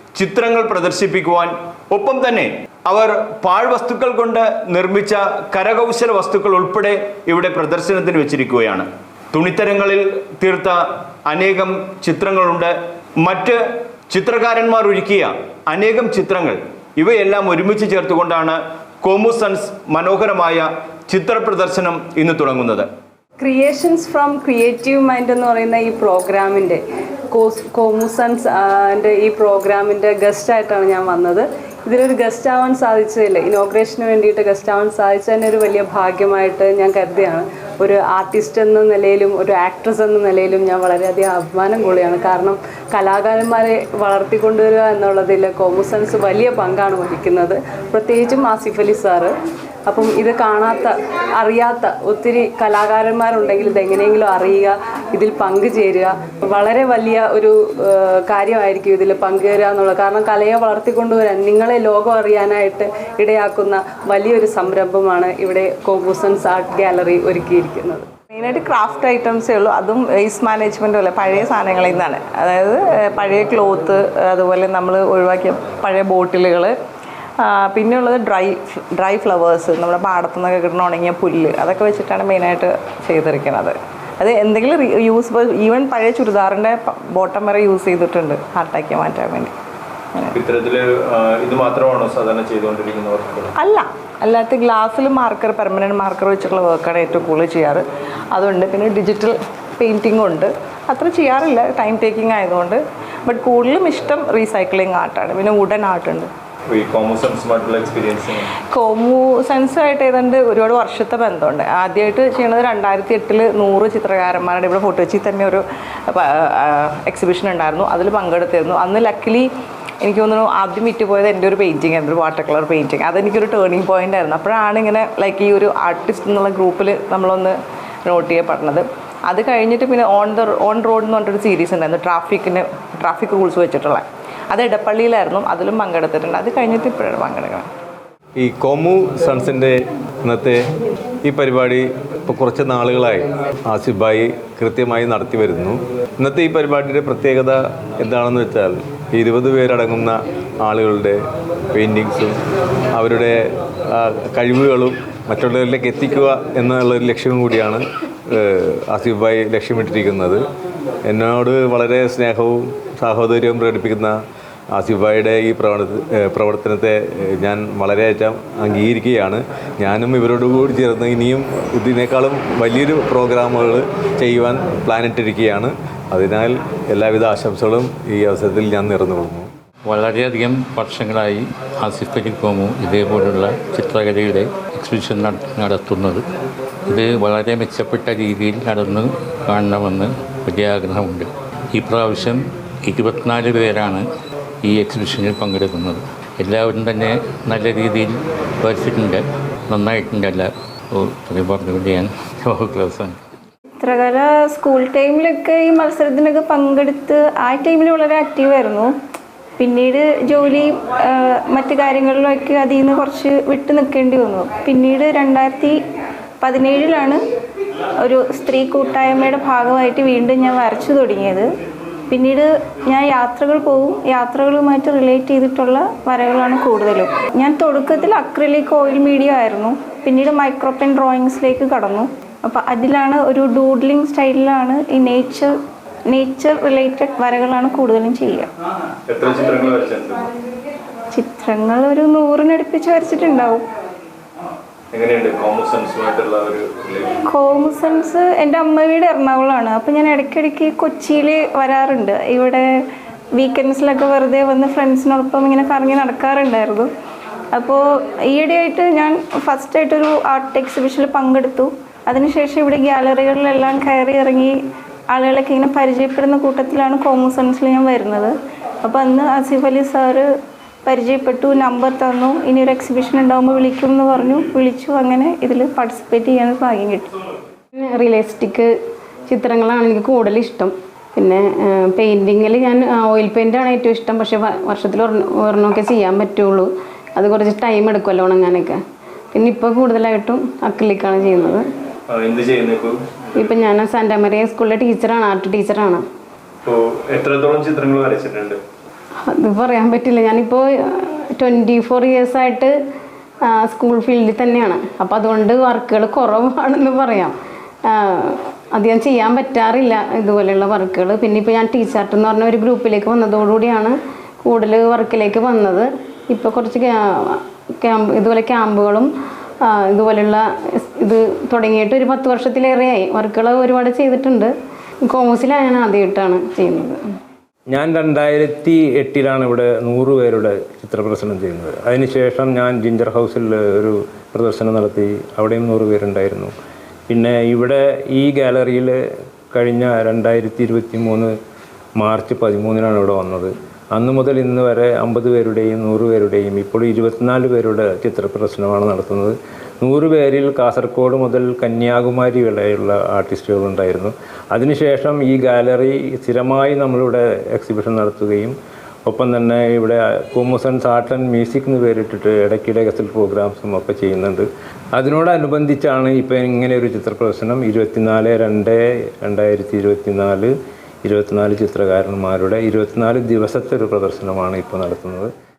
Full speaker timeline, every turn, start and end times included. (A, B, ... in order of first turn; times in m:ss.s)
0:00.2-0:13.6 A
0:14.1-0:22.9 A
0:23.4-0:49.3 B
0:49.9-1:08.1 B
1:08.3-1:16.8 C
1:17.4-1:29.6 C
1:30.3-1:33.5 A
1:33.6-1:46.3 C
1:46.7-1:48.5 A
1:48.7-1:59.5 C
2:00.0-2:17.7 C
2:18.4-2:19.7 D
2:20.2-2:20.6 D
2:21.2-2:31.2 D
2:31.7-2:32.4 D
2:33.0-2:33.4 D
2:33.9-2:40.4 D
2:41.1-2:44.1 D
2:44.8-2:59.5 D
2:59.9-3:06.2 E
3:06.9-3:14.0 E
3:14.6-3:23.2 E
3:23.8-3:28.9 F
3:29.6-3:35.8 F
3:36.4-3:37.2 F
3:38.0-3:41.5 F
3:42.1-3:55.5 F
3:56.1-3:58.5 F
3:59.1-4:00.3 A
4:01.1-4:03.7 F
4:04.9-4:07.2 A
4:07.2-4:12.7 F
4:13.4-4:16.9 F
4:17.5-4:24.5 F
4:25.1-4:30.3 F
4:30.8-4:37.1 F
4:37.8-4:38.7 G
4:39.3-4:48.8 G
4:49.3-4:51.7 G
4:52.1-4:53.0 A
4:53.4-4:56.0 G
4:56.6-4:58.6 A
4:59.3-5:02.7 G
5:03.5-5:07.4 G
5:07.9-5:19.1 G
5:19.7-5:24.5 G
5:25.0-5:27.0 G
5:27.7-5:36.5 H
5:37.1-5:38.9 H
5:39.5-5:41.3 H
5:42.0-5:58.6 H
5:59.1-6:10.5 H
6:11.0-6:15.3 H